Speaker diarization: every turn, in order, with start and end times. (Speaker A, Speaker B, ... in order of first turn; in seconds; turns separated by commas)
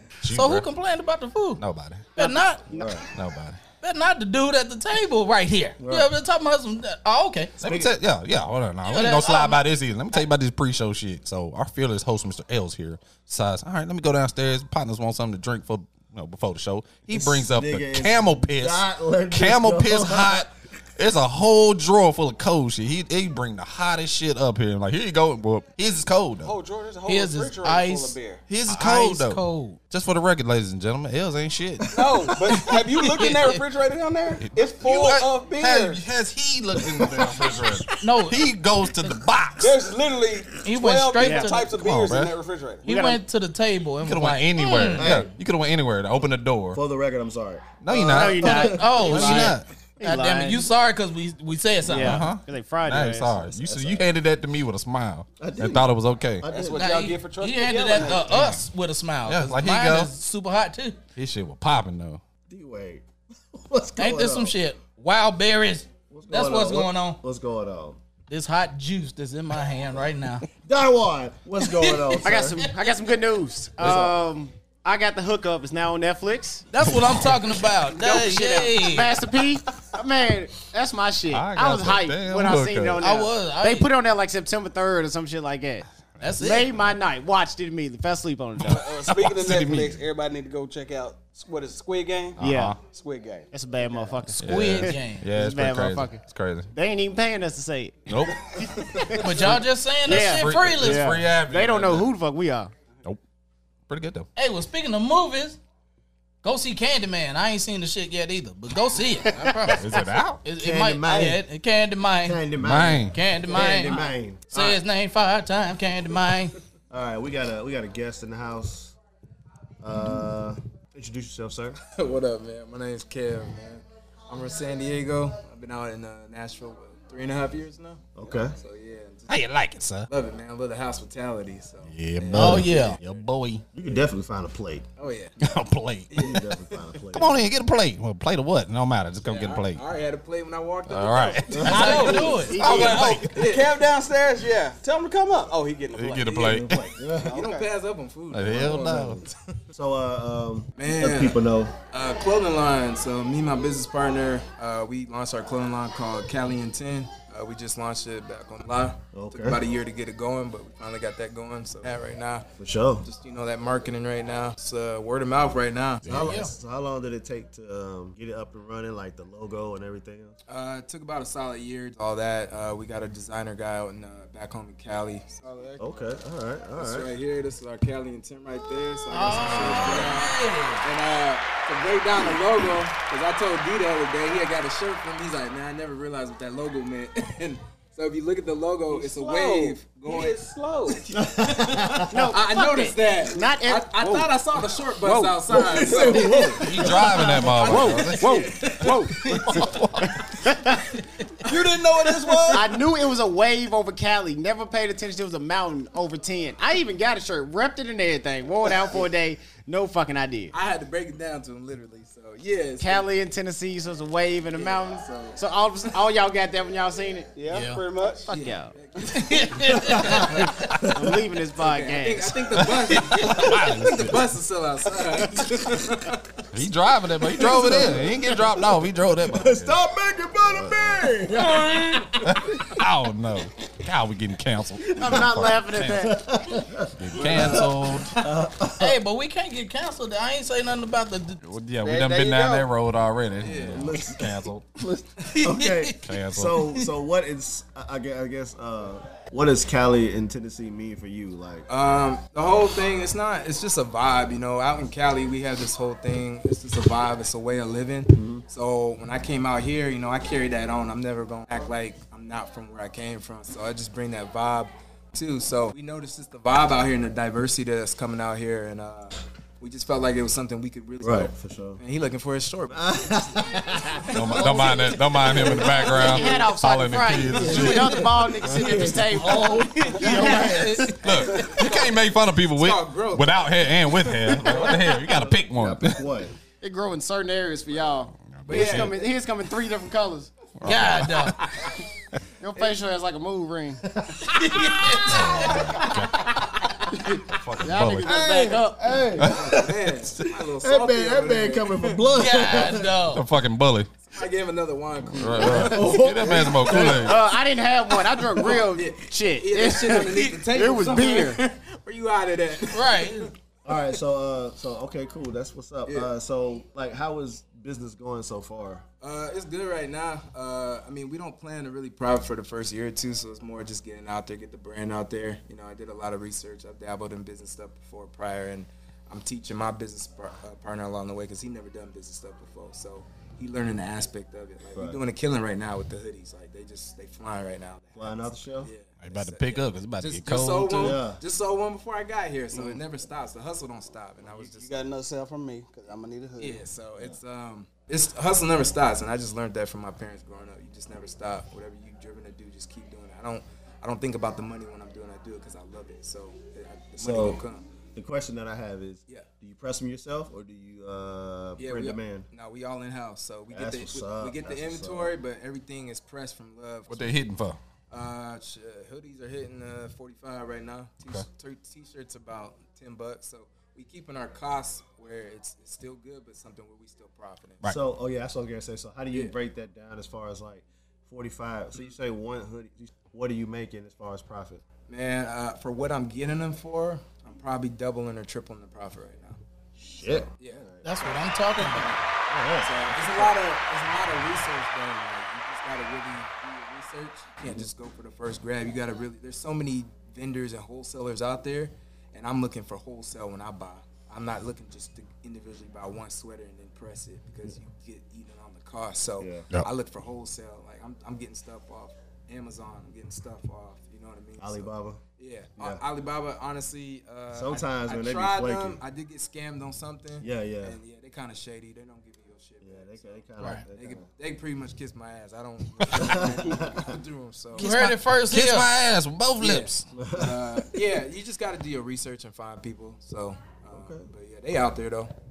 Speaker A: 0.2-0.7, Speaker B: 0.2-1.6, Speaker A: 1.6-2.1, Speaker B: 2.1-2.6, Speaker C: 2.2-3.0, Speaker D: 2.7-3.0, Speaker A: 3.1-3.6, Speaker B: 3.8-7.5, Speaker D: 5.8-6.1, Speaker A: 7.6-26.5, Speaker D: 7.6-7.9, Speaker B: 8.8-9.6, Speaker D: 17.1-20.5, Speaker E: 26.4-28.4, Speaker B: 27.1-28.1, Speaker A: 28.5-32.7, Speaker B: 28.7-29.8, Speaker E: 31.9-36.0, Speaker B: 33.2-33.5, Speaker A: 34.4-39.8, Speaker B: 38.0-38.4, Speaker E: 39.6-42.8, Speaker B: 40.6-41.7, Speaker C: 41.2-41.5, Speaker A: 41.7-42.3, Speaker B: 42.8-45.1, Speaker C: 42.8-43.2, Speaker A: 44.0-46.8, Speaker D: 45.0-45.3, Speaker D: 46.7-49.4, Speaker A: 47.8-49.6, Speaker C: 47.9-50.7, Speaker B: 48.4-52.3, Speaker C: 51.8-53.5, Speaker A: 51.9-56.5, Speaker D: 53.5-54.0, Speaker D: 55.4-56.8, Speaker E: 56.4-58.4, Speaker B: 56.8-61.0, Speaker A: 58.3-58.6, Speaker A: 59.2-60.1, Speaker A: 61.1-62.2, Speaker D: 62.5-64.5, Speaker B: 64.0-67.2, Speaker D: 66.1-68.0, Speaker B: 68.3-70.4, Speaker D: 70.6-72.7, Speaker B: 71.6-72.7, Speaker C: 72.2-76.7, Speaker D: 73.8-74.2, Speaker B: 76.7-79.2, Speaker C: 77.9-85.9, Speaker A: 81.3-83.0, Speaker B: 83.0-83.9, Speaker B: 86.2-86.7, Speaker C: 86.4-88.8, Speaker E: 88.7-94.3, Speaker A: 89.1-90.0, Speaker A: 92.4-92.8, Speaker C: 92.4-92.8, Speaker C: 93.5-102.7, Speaker A: 94.4-96.7, Speaker B: 94.4-95.2, Speaker A: 98.1-98.5, Speaker B: 99.1-101.0, Speaker A: 100.0-102.1, Speaker A: 103.9-104.3, Speaker B: 104.3-105.6, Speaker B: 106.4-112.4, Speaker A: 109.8-110.4, Speaker D: 110.6-111.4, Speaker D: 112.2-114.8, Speaker A: 112.6-113.2, Speaker B: 113.1-116.5, Speaker D: 116.9-118.9, Speaker D: 119.8-121.8, Speaker F: 121.8-129.3, Speaker D: 128.2-128.6, Speaker A: 129.3-130.1, Speaker F: 130.1-133.3, Speaker A: 131.8-133.6, Speaker B: 132.3-133.0, Speaker D: 133.7-134.8, Speaker F: 135.0-135.3, Speaker A: 135.4-136.5, Speaker F: 136.1-136.5, Speaker D: 136.2-137.4, Speaker A: 137.1-139.8, Speaker F: 139.2-142.4, Speaker A: 140.9-143.4, Speaker D: 141.5-142.3, Speaker B: 141.6-143.3, Speaker C: 142.4-143.2, Speaker F: 143.3-143.7, Speaker E: 143.3-146.6, Speaker A: 145.9-146.8, Speaker D: 146.4-147.4, Speaker E: 147.2-147.7, Speaker F: 147.3-149.3, Speaker A: 148.3-149.2, Speaker D: 148.6-151.7, Speaker F: 150.8-151.4, Speaker F: 151.9-162.4, Speaker D: 159.1-159.6, Speaker D: 162.6-163.1, Speaker F: 163.0-166.1, Speaker A: 166.0-166.4, Speaker D: 166.1-170.4, Speaker B: 166.1-166.5, Speaker F: 170.5-176.1, Speaker D: 175.8-177.1, Speaker F: 176.8-199.7, Speaker B: 179.1-180.8, Speaker D: 179.3-180.2, Speaker E: 188.9-191.1, Speaker D: 191.1-192.3, Speaker C: 192.1-194.3, Speaker C: 195.0-195.4, Speaker D: 195.5-197.3, Speaker A: 196.6-200.2, Speaker C: 197.6-200.8, Speaker F: 201.4-202.6, Speaker E: 201.5-202.6, Speaker C: 202.5-210.5, Speaker F: 210.5-213.2, Speaker C: 212.8-217.3, Speaker F: 214.5-215.4, Speaker E: 217.3-218.3, Speaker B: 217.5-217.8, Speaker F: 218.3-220.6, Speaker C: 218.3-218.7, Speaker B: 219.1-220.0, Speaker D: 219.8-221.2, Speaker C: 220.2-222.3, Speaker F: 221.6-226.3, Speaker A: 222.5-224.2, Speaker D: 223.3-223.8, Speaker A: 226.5-229.7, Speaker D: 227.3-228.5, Speaker D: 229.2-232.8, Speaker A: 232.2-236.1, Speaker D: 234.8-239.0, Speaker C: 235.0-236.3, Speaker A: 237.0-238.1, Speaker F: 237.1-238.2, Speaker B: 238.8-241.4, Speaker A: 241.4-244.7, Speaker E: 241.8-242.7, Speaker F: 243.4-243.8, Speaker D: 243.7-251.7, Speaker B: 245.5-245.9, Speaker A: 246.0-246.6, Speaker F: 251.7-273.3, Speaker D: 258.1-258.4, Speaker D: 271.0-271.8, Speaker D: 272.7-276.5, Speaker A: 274.1-278.0, Speaker F: 274.3-276.0, Speaker C: 275.9-280.9, Speaker D: 277.3-281.1, Speaker B: 279.4-281.6, Speaker A: 280.9-286.0, Speaker F: 282.5-284.7, Speaker D: 284.5-286.3, Speaker C: 286.6-290.3, Speaker A: 288.2-288.9, Speaker F: 288.4-289.1, Speaker A: 290.6-291.3, Speaker B: 290.6-291.4, Speaker C: 292.4-293.8, Speaker D: 293.9-294.2, Speaker B: 294.3-295.3, Speaker A: 295.0-296.3, Speaker A: 297.3-298.1, Speaker C: 297.6-299.1, Speaker D: 298.0-299.7, Speaker F: 299.2-302.0, Speaker D: 300.6-302.9, Speaker B: 302.1-303.2, Speaker A: 303.1-303.9, Speaker F: 304.0-306.9, Speaker A: 305.1-307.2, Speaker D: 305.4-307.2, Speaker C: 306.8-311.4, Speaker F: 308.1-313.3, Speaker B: 312.7-313.3, Speaker D: 313.6-318.8, Speaker F: 319.0-344.8, Speaker D: 334.7-335.0, Speaker D: 337.9-338.7, Speaker A: 339.0-341.0, Speaker D: 340.8-341.2, Speaker E: 344.2-346.6, Speaker F: 346.4-357.6, Speaker D: 357.0-357.4, Speaker D: 357.9-362.3, Speaker F: 361.6-367.1, Speaker D: 363.5-365.1, Speaker A: 366.9-367.6, Speaker F: 367.9-377.6, Speaker D: 377.6-384.6, Speaker F: 384.9-389.4, Speaker D: 389.8-390.8, Speaker F: 390.0-392.0, Speaker B: 390.8-391.9, Speaker D: 392.3-393.3, Speaker F: 392.6-427.7, Speaker D: 409.2-409.4, Speaker D: 414.4-415.0, Speaker D: 415.6-415.8, Speaker D: 417.3-418.8, Speaker D: 420.2-420.8, Speaker D: 422.6-424.1, Speaker D: 425.9-426.9, Speaker B: 427.6-428.7, Speaker A: 427.6-429.9, Speaker F: 429.4-435.1, Speaker D: 429.9-430.6, Speaker D: 433.7-434.1